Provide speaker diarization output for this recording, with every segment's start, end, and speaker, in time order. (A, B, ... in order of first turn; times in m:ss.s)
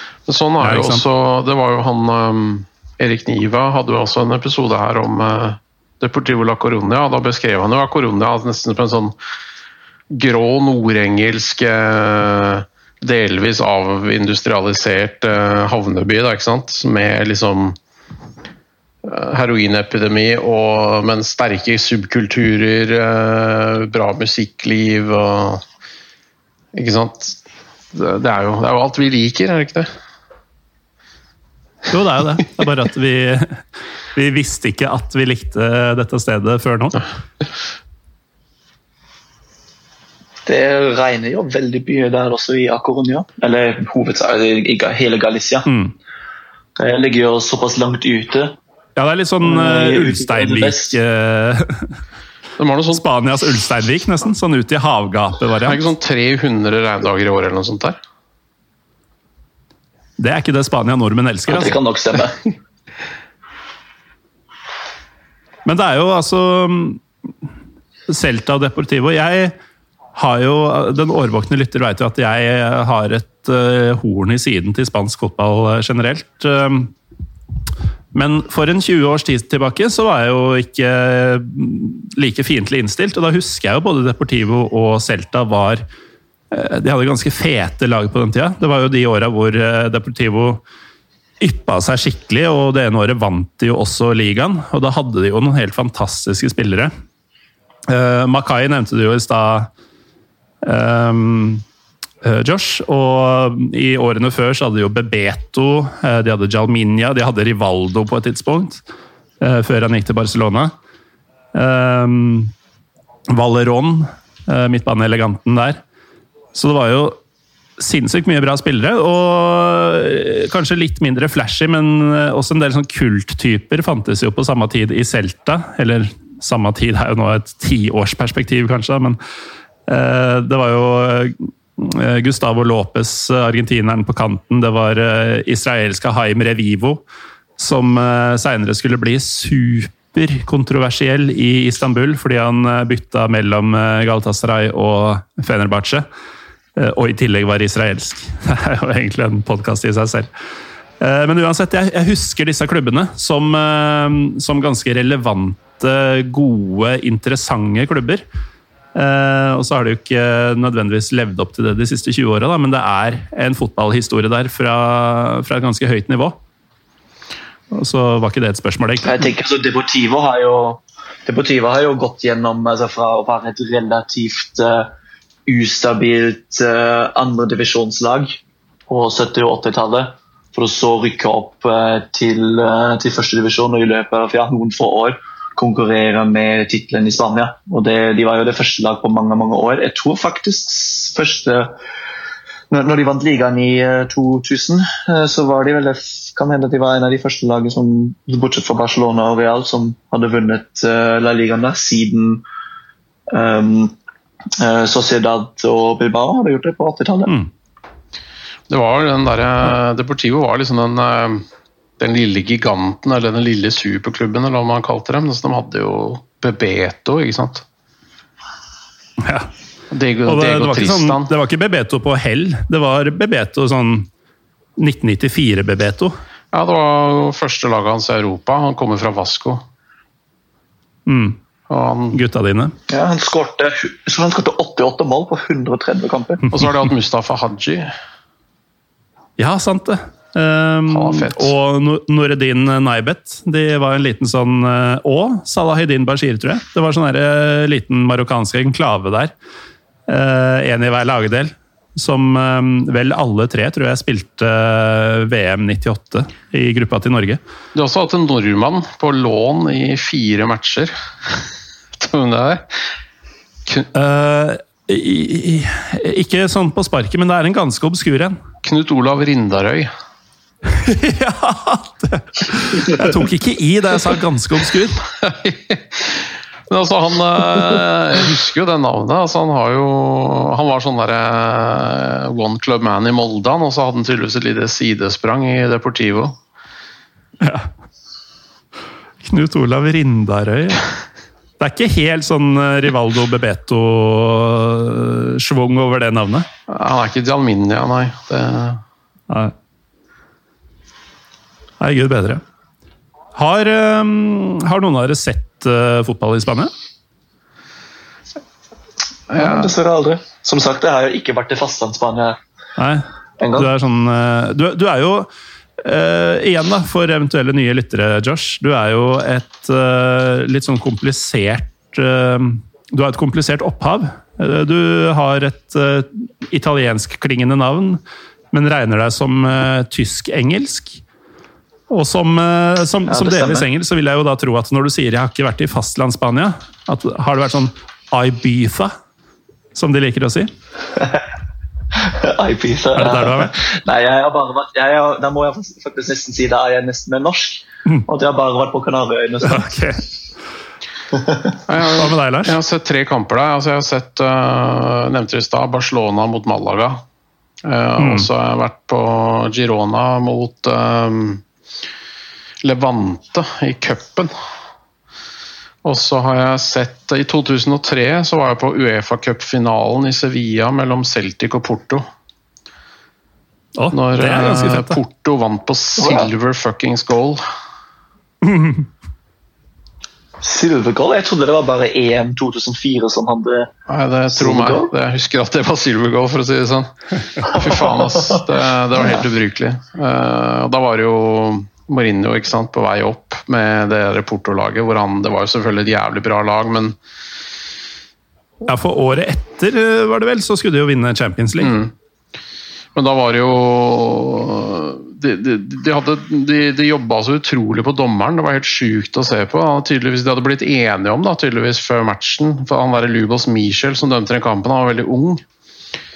0:00.3-0:09.2 A
0:00.6-0:01.0 B
0:10.1-0:17.8 A
0:19.0-0:25.6 A
0:26.7-0:27.4 A
0:27.9-0:29.9 A
0:31.9-0:37.0 B
0:40.4-0:45.7 C
0:45.7-0:45.9 B
0:46.8-0:48.6 C
0:49.0-0:51.9 B
0:49.4-0:51.0 C
0:52.6-0:53.0 A
0:52.9-0:55.8 B
0:55.6-0:58.0 A
1:00.2-1:01.8 B
1:01.5-1:02.5 C
1:05.6-1:07.0 B
1:08.1-1:09.5 B
1:10.2-1:16.9 B
1:18.1-1:25.8 B
1:26.5-1:30.6 B
1:31.4-1:36.9 B
1:37.9-1:39.7 B
1:40.6-1:41.6 B
1:42.2-1:48.8 B
1:49.4-1:50.7 B
1:51.5-1:52.5 B
1:53.3-1:55.8 B
1:56.5-1:57.2 B
1:57.8-2:09.2 B
2:09.9-2:17.0 B
2:17.6-2:26.0 B
2:26.8-2:30.3 B
2:31.0-2:38.2 B
2:38.9-2:46.4 B
2:47.7-2:49.2 B
2:49.0-2:54.9 C
2:55.5-3:11.7 C
3:12.7-3:22.4 C
3:23.3-3:23.9 C
3:24.6-3:27.3 C
3:28.7-3:31.4 A
3:32.0-3:37.6 A
3:39.2-3:39.5 B
3:39.9-3:41.3 A
3:40.2-3:44.1 B
3:44.8-3:46.2 B
3:46.5-3:49.6 A
3:51.1-3:51.4 B
3:51.7-3:52.2 A
3:52.1-3:52.7 B
3:52.9-3:56.6 C
3:56.5-3:57.9 A
3:59.4-4:09.3 B
4:00.9-4:01.5 A
4:10.1-4:17.4 B
4:17.7-4:21.4 A
4:22.0-4:22.7 A
4:23.9-4:28.4 B
4:28.6-4:29.9 A
4:30.7-4:35.0 B
4:35.2-4:46.4 A
4:47.4-4:47.7 B
4:49.2-4:50.9 B
4:51.6-4:56.5 B
4:56.7-4:58.8 A
5:01.8-5:02.4 B
5:03.4-5:06.7 B
5:09.3-5:09.7 A
5:09.3-5:12.4 C
5:12.8-5:15.3 B
5:13.4-5:13.7 C
5:15.8-5:28.0 B
5:28.5-5:31.0 B
5:31.9-5:38.9 B
5:33.1-5:33.7 C
5:39.7-5:40.5 B
5:41.0-5:41.2 C
5:42.0-5:49.7 C
5:43.0-5:43.5 B
5:49.4-5:50.0 B
5:51.1-5:51.6 C
5:51.7-5:57.0 A
5:52.0-5:52.6 B
5:57.6-6:01.4 A
5:58.0-5:58.3 B
6:02.6-6:04.3 A
6:05.8-6:12.0 A
6:13.8-6:15.0 B
6:13.9-6:17.4 A
6:16.0-6:16.3 C
6:18.4-6:18.9 B
6:20.4-6:23.7 C
6:23.9-6:37.0 A
6:24.3-6:24.9 C
6:27.5-6:28.4 C
6:29.0-6:29.2 C
6:38.6-6:41.7 B
6:41.6-6:41.9 A
6:42.9-6:55.4 A